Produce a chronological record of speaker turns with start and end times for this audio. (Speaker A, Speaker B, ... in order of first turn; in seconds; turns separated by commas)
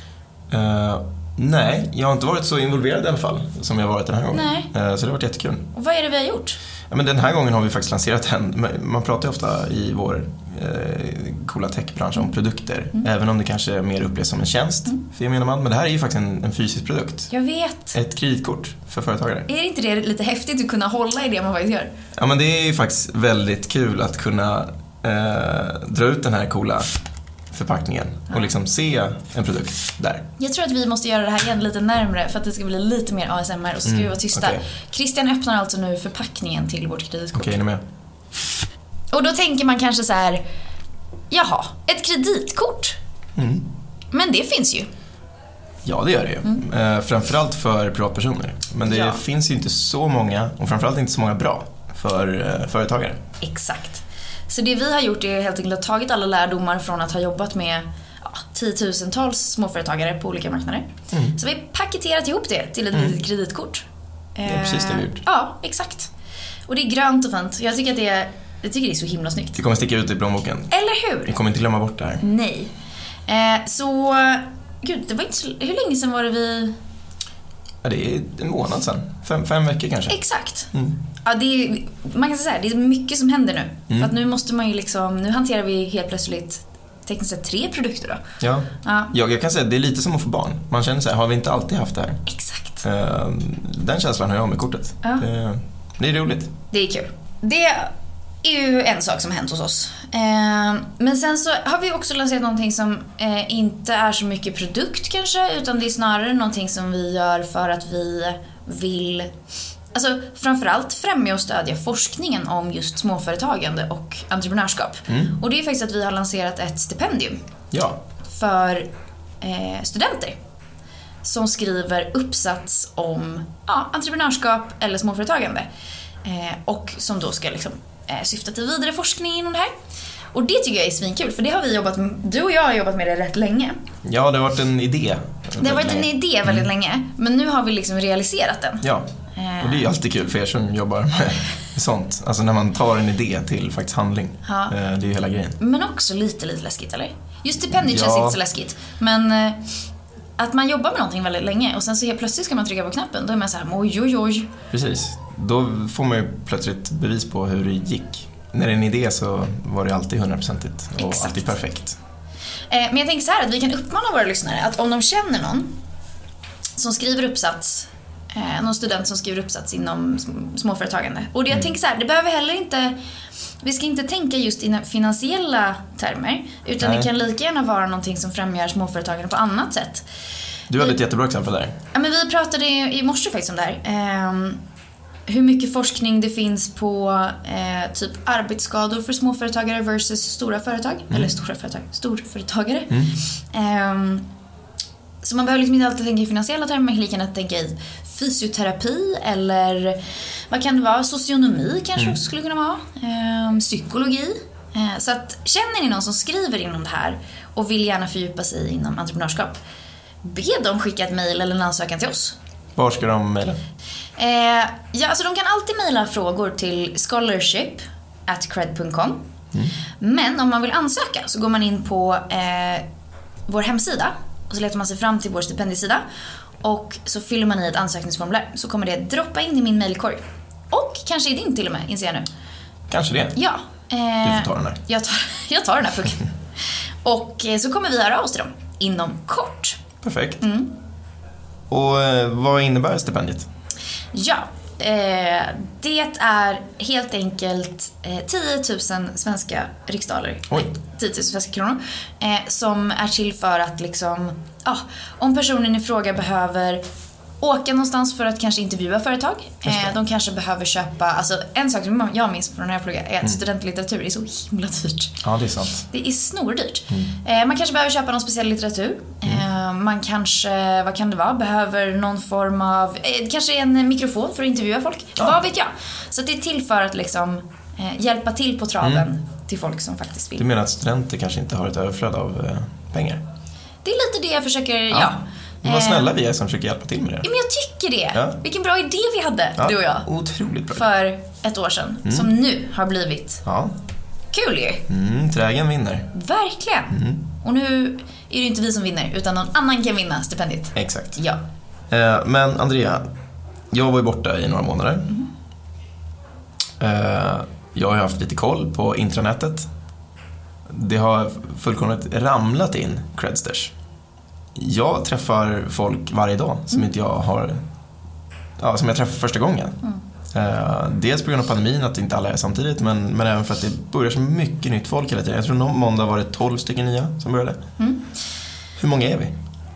Speaker A: 0.5-5.7, Speaker B: 4.3-4.7, Speaker B: 5.7-6.6, Speaker A: 6.9-17.3, Speaker B: 17.3-18.0, Speaker A: 17.9-19.5, Speaker B: 19.5-21.9, Speaker A: 22.1-26.9, Speaker A: 27.5-30.2, Speaker B: 30.4-37.6, Speaker A: 33.9-34.6, Speaker A: 37.4-37.8, Speaker B: 39.1-40.4, Speaker B: 41.3-43.0, Speaker A: 43.4-43.6, Speaker B: 44.1-44.9, Speaker A: 45.9-53.2, Speaker B: 48.9-49.2, Speaker B: 53.4-63.9, Speaker A: 61.1-61.4, Speaker B: 64.4-66.1, Speaker A: 64.5-65.2, Speaker B: 66.7-69.6, Speaker A: 69.6-70.7, Speaker B: 70.7-71.3, Speaker A: 71.3-72.2, Speaker B: 72.2-72.7, Speaker B: 73.3-76.7, Speaker A: 77.8-80.2, Speaker B: 80.1-80.7, Speaker B: 81.2-88.2, Speaker A: 88.4-92.2, Speaker B: 88.8-89.1, Speaker B: 92.3-92.8, Speaker A: 92.8-96.5, Speaker B: 96.7-97.9, Speaker B: 98.4-109.3, Speaker B: 109.9-117.4, Speaker A: 115.1-115.3, Speaker A: 117.7-118.0, Speaker B: 118.3-118.9, Speaker B: 119.4-120.4, Speaker B: 121.2-125.7, Speaker B: 126.2-129.7, Speaker B: 130.3-133.8, Speaker A: 134.0-136.6, Speaker B: 135.6-139.9, Speaker A: 138.8-139.1, Speaker A: 139.6-145.6, Speaker B: 144.4-144.8, Speaker B: 145.6-149.7, Speaker A: 147.7-148.4, Speaker B: 150.4-154.5, Speaker A: 154.7-162.0, Speaker B: 161.0-161.5, Speaker B: 162.7-165.7, Speaker B: 166.8-172.9, Speaker B: 173.6-180.1, Speaker A: 176.8-177.1, Speaker A: 180.7-181.8, Speaker B: 181.9-184.6, Speaker B: 185.3-194.2, Speaker B: 195.2-209.6, Speaker B: 210.2-212.3, Speaker A: 212.8-213.6, Speaker B: 214.2-219.2, Speaker B: 220.0-222.8, Speaker B: 223.5-226.0, Speaker B: 226.6-230.2, Speaker B: 230.7-232.3, Speaker A: 232.9-233.4, Speaker B: 233.3-236.3, Speaker A: 234.2-234.8, Speaker B: 237.0-239.8, Speaker A: 240.0-240.4, Speaker B: 240.4-240.7, Speaker A: 241.7-243.5, Speaker B: 244.1-256.8, Speaker B: 257.4-265.2, Speaker A: 259.7-259.9, Speaker A: 265.2-265.9, Speaker B: 265.9-280.4, Speaker A: 280.4-283.2, Speaker B: 283.8-286.1, Speaker A: 284.9-287.2, Speaker B: 287.2-290.1, Speaker A: 289.6-290.9, Speaker B: 290.7-293.4, Speaker A: 293.4-293.7, Speaker B: 294.3-294.9, Speaker A: 294.9-296.1, Speaker B: 296.1-301.4, Speaker A: 296.9-297.2, Speaker A: 300.8-301.2, Speaker A: 301.9-303.1, Speaker A: 303.7-305.1, Speaker A: 306.8-309.7, Speaker A: 310.7-313.7, Speaker A: 314.6-317.6, Speaker A: 318.6-319.8, Speaker A: 320.3-327.6, Speaker B: 327.8-328.0, Speaker A: 328.8-329.4